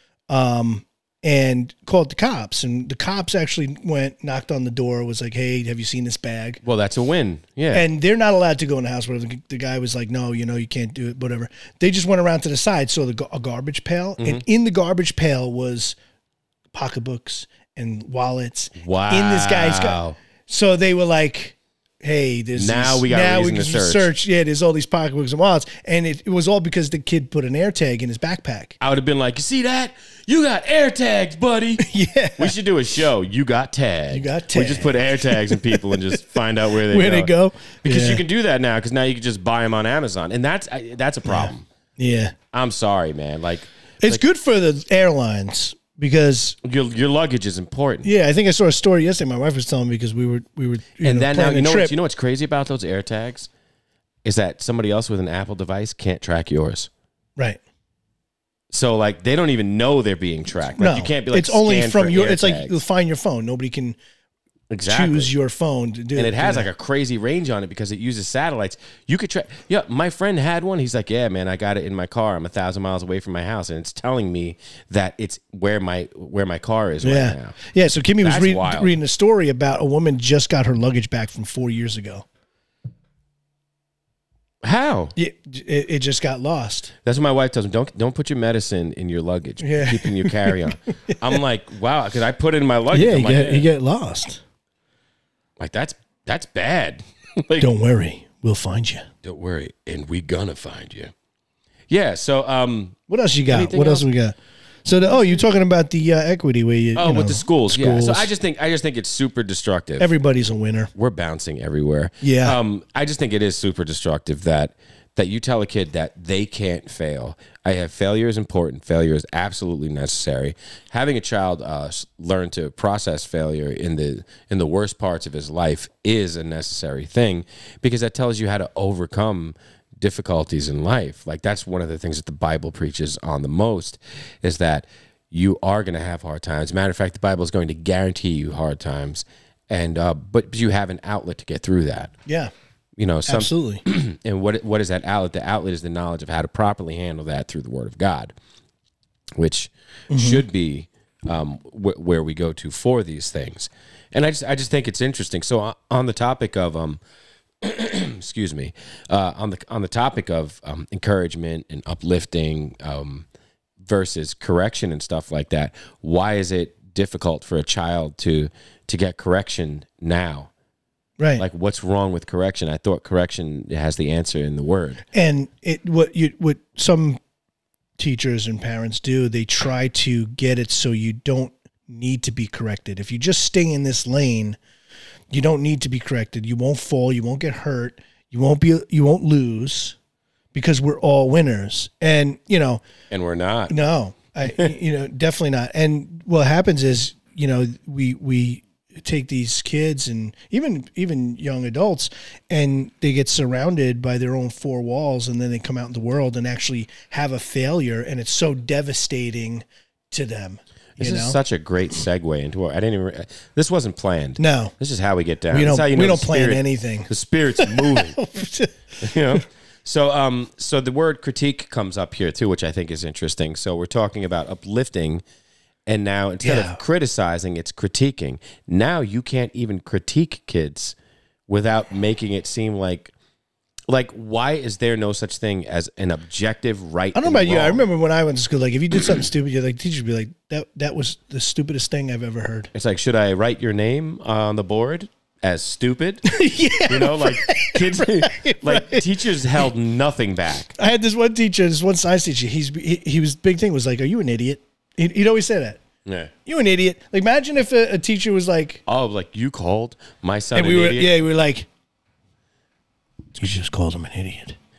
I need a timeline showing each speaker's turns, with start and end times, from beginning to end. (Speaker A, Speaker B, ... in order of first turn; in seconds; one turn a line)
Speaker A: 0.3-6.6
Speaker B: 6.6-7.8
Speaker A: 7.7-16.0
Speaker B: 14.2-14.4
Speaker A: 16.7-28.8
Speaker B: 18.8-20.2
Speaker B: 22.6-24.1
Speaker B: 28.8-31.8
Speaker A: 31.8-32.5
Speaker B: 32.4-37.3
Speaker A: 34.1-38.2
Speaker B: 37.8-41.6
Speaker A: 41.2-42.3
Speaker B: 42.5-44.2
Speaker A: 44.0-46.6
Speaker B: 46.6-48.1
Speaker A: 48.0-51.9
Speaker B: 51.0-53.5
Speaker B: 54.2-56.9
Speaker B: 58.7-62.7
Speaker A: 60.8-64.0
Speaker B: 64.7-65.3
Speaker A: 64.8-66.7
Speaker B: 66.2-77.5
Speaker A: 77.0-82.2
Speaker B: 78.2-79.0
Speaker B: 84.6-85.1
Speaker A: 85.2-86.9
Speaker B: 87.0-93.7
Speaker A: 89.6-91.3
Speaker A: 92.9-94.4
Speaker B: 95.6-97.7
Speaker A: 97.6-99.1
Speaker B: 99.2-101.1
Speaker B: 101.9-103.0
Speaker A: 103.1-108.3
Speaker B: 103.5-104.0
Speaker B: 106.9-110.1
Speaker A: 110.0-110.9
Speaker B: 110.9-142.1
Speaker A: 112.2-112.6
Speaker A: 142.2-142.5
Speaker B: 143.0-148.3
Speaker A: 143.2-143.8
Speaker B: 149.4-157.0
Speaker A: 150.1-150.4
Speaker B: 157.6-163.2
Speaker B: 163.8-170.5
Speaker B: 171.4-175.0
Speaker A: 175.1-177.2
Speaker A: 178.0-184.6
Speaker A: 185.3-189.9
Speaker A: 190.5-192.8
Speaker B: 193.1-193.7
Speaker A: 193.7-211.4
Speaker B: 194.4-194.7
Speaker B: 211.0-218.2
Speaker A: 214.4-214.7
Speaker A: 215.5-219.4
Speaker B: 219.0-225.2
Speaker B: 225.9-230.9
Speaker A: 226.4-226.8
Speaker B: 231.5-233.1
Speaker B: 233.9-237.8
Speaker A: 237.1-242.7
Speaker B: 242.7-246.3
Speaker A: 246.2-249.1
Speaker B: 246.9-250.7
Speaker A: 250.8-255.8
Speaker B: 256.0-256.3
Speaker A: 256.4-258.8
Speaker B: 258.9-261.1
Speaker A: 260.5-261.7
Speaker A: 263.3-264.6